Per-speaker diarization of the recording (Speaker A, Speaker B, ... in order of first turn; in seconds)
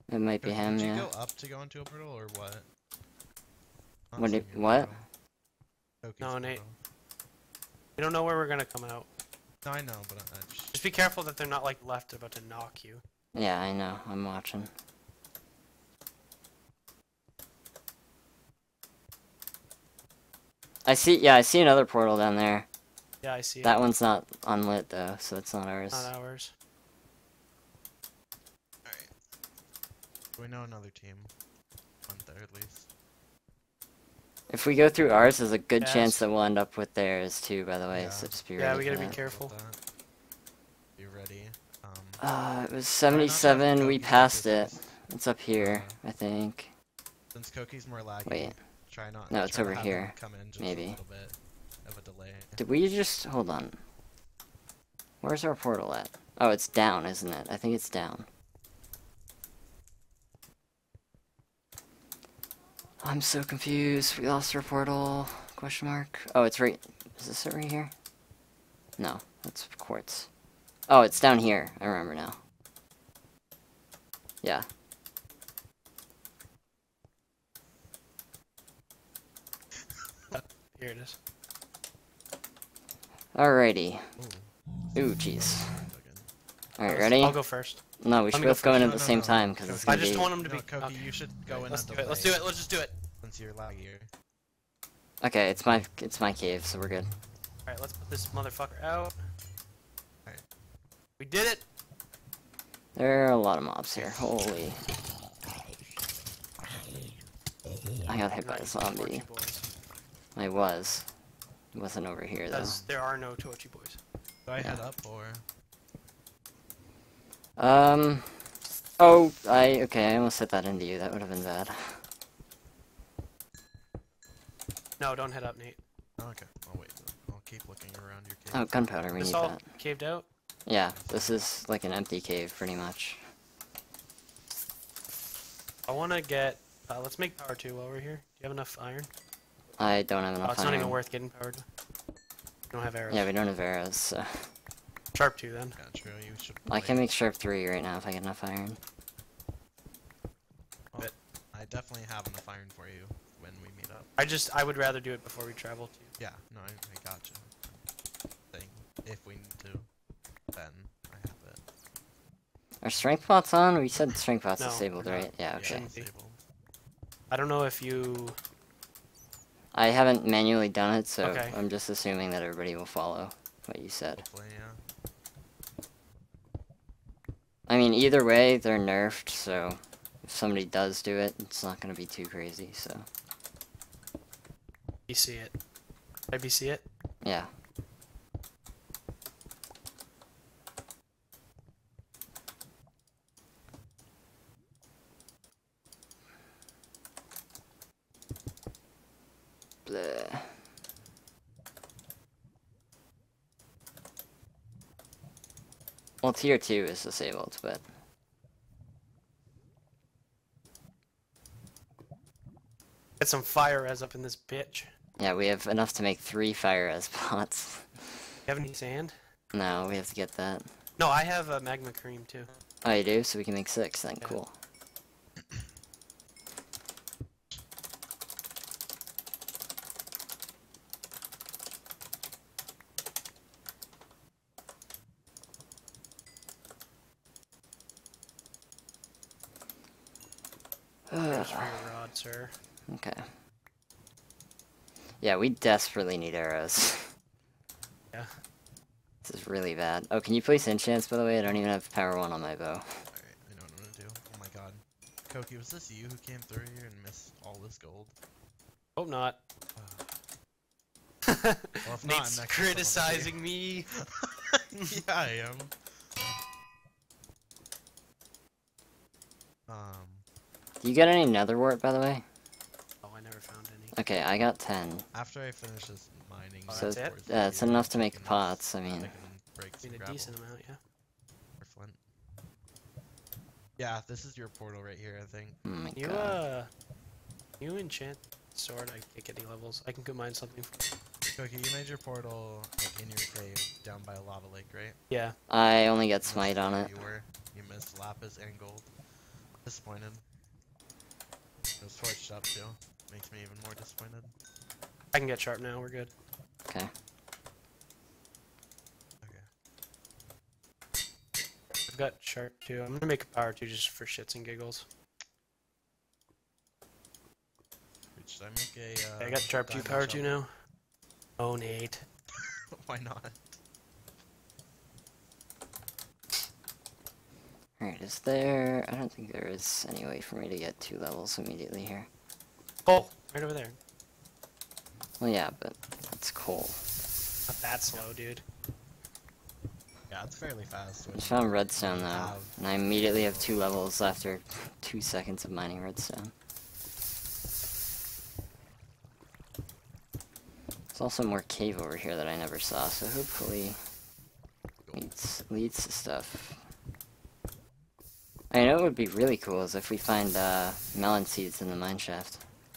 Speaker A: 0.1-1.1, 4.2-4.9, 13.3-14.7, 20.9-22.7, 23.6-26.1, 34.5-39.2, 42.2-46.7, 48.3-48.6, 49.3-51.0, 52.6-53.8, 55.2-58.3, 63.0-67.9, 69.0-70.3, 70.9-72.4, 74.4-74.7, 83.3-84.1, 85.0-85.8, 86.8-87.5, 88.0-90.3, 95.2-97.1, 103.0-104.8, 108.0-109.3, 110.4-111.1, 111.7-112.8, 117.6-122.0, 128.5-129.6, 130.7-133.2, 139.8-141.0, 143.1-144.5, 146.7-148.8, 162.8-165.9, 169.7-174.2, 177.7-183.1, 187.2-187.5, 199.9-200.6, 206.2-207.8, 215.2-218.2, 219.5-220.7, 222.8-224.5, 241.1-241.8, 242.9-243.3, 245.2-247.1, 249.2-253.0, 270.8-272.2, 273.9-275.1, 276.7-279.1, 285.6-286.4, 295.5-296.9, 327.8-332.1, 335.2-336.8, 341.1-346.3, 350.9-353.8, 355.0-356.6, 358.5-362.4
Speaker B: 0.4-2.7, 4.1-5.0, 6.0-6.8, 9.6-10.8, 28.9-29.1, 30.4-31.3, 32.1-32.9, 37.9-39.8, 41.0-42.2, 43.0-45.0, 45.5-46.0, 47.3-52.6, 84.2-86.3, 88.7-92.6, 93.2-94.1, 103.9-104.4, 112.5-113.0, 114.5-115.5, 126.2-128.8, 130.9-131.5, 145.8-147.1, 150.9-154.1, 156.2-157.8, 158.5-159.9, 160.5-161.6, 164.9-166.4, 174.2-174.8, 253.1-258.1, 259.8-260.2, 261.9-263.4, 263.9-265.8, 269.7-270.2, 275.1-280.4, 281.6-282.0, 283.8-285.6, 291.4-295.0, 296.2-298.9, 299.6-300.2, 301.8-304.3, 309.2-309.5, 318.1-320.4, 322.3-323.6, 340.1-343.9, 354.9-355.1
Speaker C: 6.2-6.6, 8.0-9.1, 10.7-13.0, 23.2-23.8, 25.9-26.5, 35.8-36.3, 38.6-39.5, 80.3-81.2, 86.8-88.9, 89.8-92.9, 97.7-99.2, 101.2-101.6, 108.4-109.7, 112.5-114.0, 125.0-125.8, 129.2-130.3, 135.9-139.1, 140.4-141.7, 142.7-143.3, 145.1-145.8, 154.2-156.1, 164.6-164.9, 165.6-166.1, 167.3-168.4, 171.2-171.6, 185.1-185.6, 186.3-186.8, 213.2-214.9, 218.5-219.2, 221.0-222.5, 241.2-242.5, 259.0-259.4, 261.3-263.9, 273.0-273.9, 276.7-277.1, 279.8-280.8, 285.9-286.7, 287.6-290.9, 295.1-295.4, 305.1-306.1, 311.9-314.9, 319.2-320.5, 321.4-322.1, 332.9-333.8, 337.5-338.4